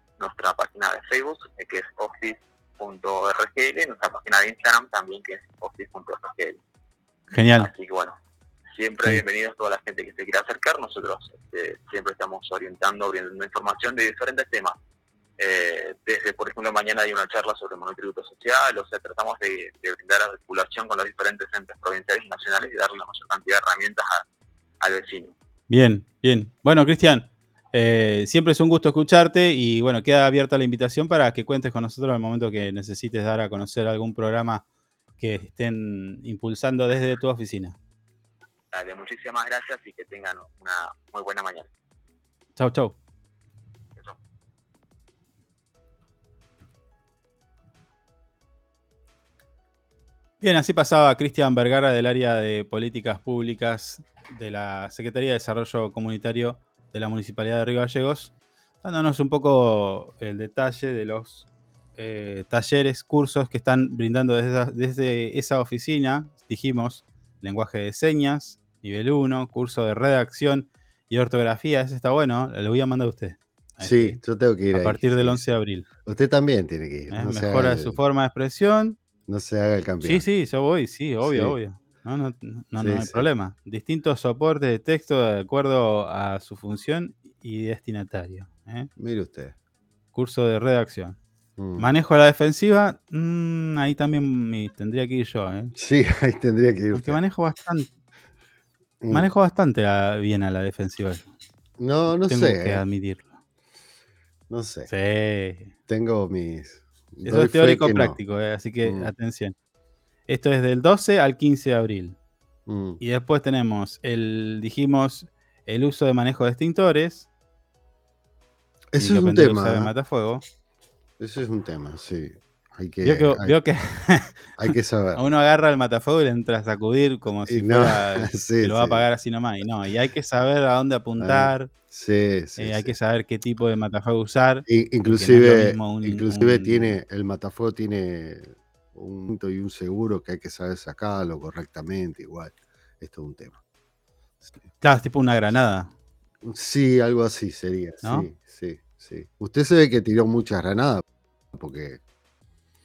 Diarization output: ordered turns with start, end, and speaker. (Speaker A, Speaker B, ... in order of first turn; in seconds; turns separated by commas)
Speaker A: 0.2-6.6, Speaker B: 7.3-7.7, Speaker A: 7.6-8.2, Speaker A: 8.8-14.8, Speaker A: 15.4-24.2, Speaker A: 24.8-25.3, Speaker B: 25.7-34.6, Speaker B: 35.2-37.8, Speaker A: 38.7-41.7, Speaker B: 42.6-43.0, Speaker B: 50.4-58.3, Speaker B: 58.8-74.2, Speaker C: 73.8-75.4, Speaker B: 74.7-75.9, Speaker C: 76.0-78.0, Speaker B: 77.1-79.0, Speaker C: 79.3-80.3, Speaker B: 80.0-88.9, Speaker C: 81.2-81.6, Speaker C: 82.8-83.3, Speaker C: 89.0-89.6, Speaker B: 90.1-91.2, Speaker C: 91.6-91.9, Speaker B: 91.8-95.7, Speaker C: 95.8-97.2, Speaker B: 96.9-97.9, Speaker C: 99.0-99.3, Speaker B: 99.1-101.3, Speaker C: 101.8-102.8, Speaker B: 102.3-103.3, Speaker C: 104.5-104.9, Speaker B: 104.9-105.7, Speaker C: 105.9-108.2, Speaker B: 107.2-109.5, Speaker C: 108.8-109.1, Speaker B: 110.3-112.2, Speaker C: 112.7-113.0, Speaker B: 113.0-117.3, Speaker C: 118.9-119.9, Speaker B: 119.0-120.4, Speaker C: 121.2-123.6, Speaker B: 123.0-131.7, Speaker C: 124.6-125.2, Speaker C: 127.5-129.0, Speaker C: 131.2-132.9, Speaker B: 132.6-137.0, Speaker C: 134.7-143.6, Speaker B: 144.8-145.9, Speaker C: 146.4-152.0